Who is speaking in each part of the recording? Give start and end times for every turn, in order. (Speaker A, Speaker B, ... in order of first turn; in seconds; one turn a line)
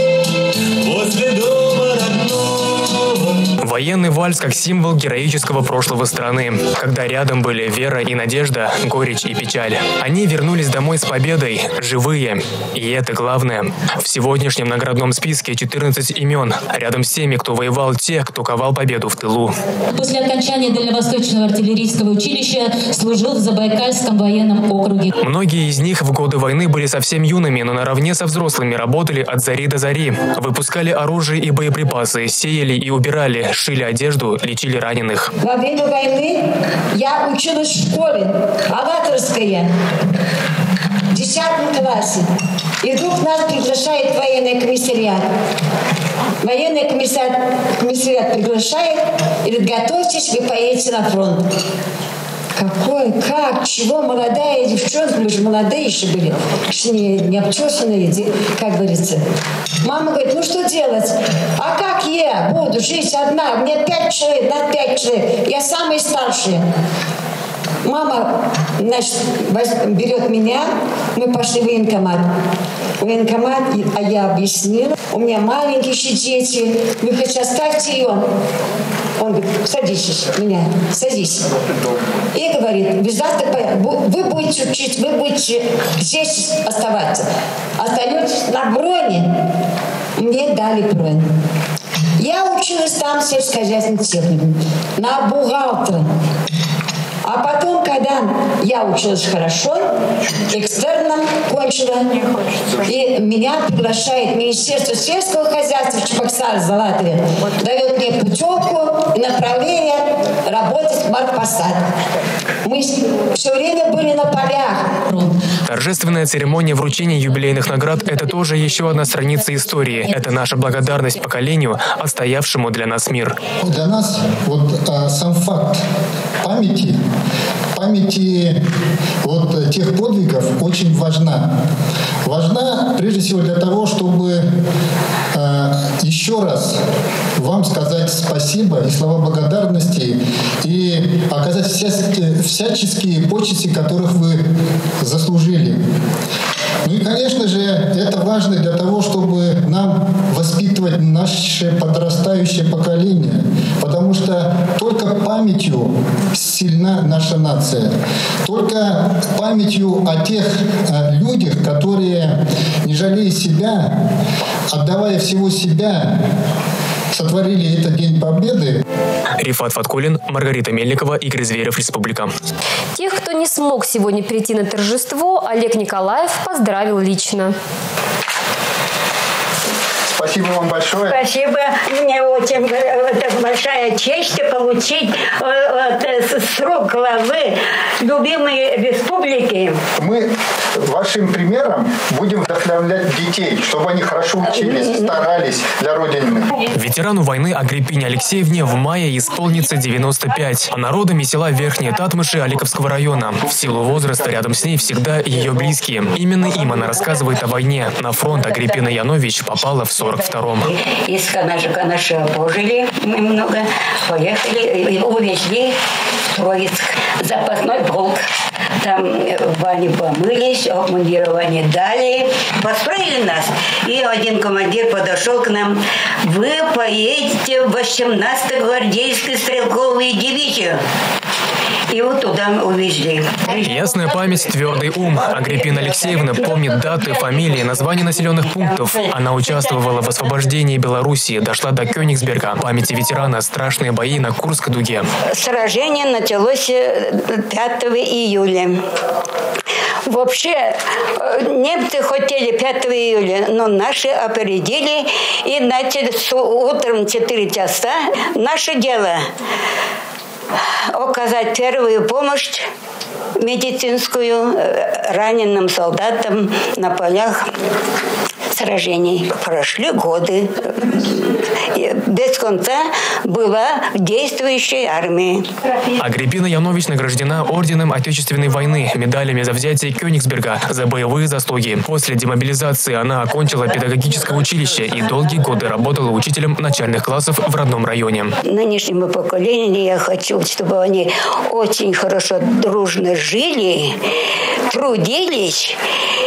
Speaker A: 0.8-3.4
Speaker B: 3.6-19.6
Speaker A: 19.9-25.1
Speaker B: 25.2-35.3
Speaker C: 35.4-36.4
Speaker C: 36.9-39.7
Speaker C: 41.1-42.2
Speaker C: 42.8-45.2
Speaker C: 46.4-51.5
Speaker C: 52.5-59.2
Speaker C: 59.8-66.7
Speaker C: 67.8-72.2
Speaker C: 73.0-78.2
Speaker C: 79.2-81.4
Speaker C: 82.3-87.3
Speaker C: 87.8-89.3
Speaker C: 90.2-91.3
Speaker C: 92.2-96.0
Speaker C: 97.2-99.8
Speaker C: 100.5-102.1
Speaker C: 102.8-111.8
Speaker C: 112.6-114.8
Speaker B: 115.7-123.3
Speaker D: 123.6-125.8
Speaker D: 126.4-127.0
Speaker D: 127.7-128.6
Speaker D: 129.2-131.5
Speaker D: 132.2-134.4
Speaker D: 135.3-136.8
Speaker D: 137.4-144.4
Speaker D: 145.0-145.8
Speaker D: 146.8-163.9
Speaker D: 164.7-166.2
Speaker D: 167.1-168.8
Speaker B: 169.4-172.3
Speaker E: 173.0-177.5
Speaker D: 180.1-181.2
Speaker F: 180.9-189.8
Speaker D: 190.0-196.5
Speaker F: 194.5-195.2
Speaker B: 196.7-210.7
Speaker F: 210.6-215.8
Speaker F: 216.3-230.8
Speaker F: 231.9-234.0
Speaker B: 233.6-245.1
Speaker F: 236.5-238.9
Speaker F: 245.3-248.8
Speaker F: 250.1-259.3
Speaker F: 260.6-262.6
Speaker F: 263.4-267.5
Speaker F: 268.5-275.5
Speaker B: 276.0-288.3
Speaker F: 288.4-294.0
Speaker F: 294.7-295.8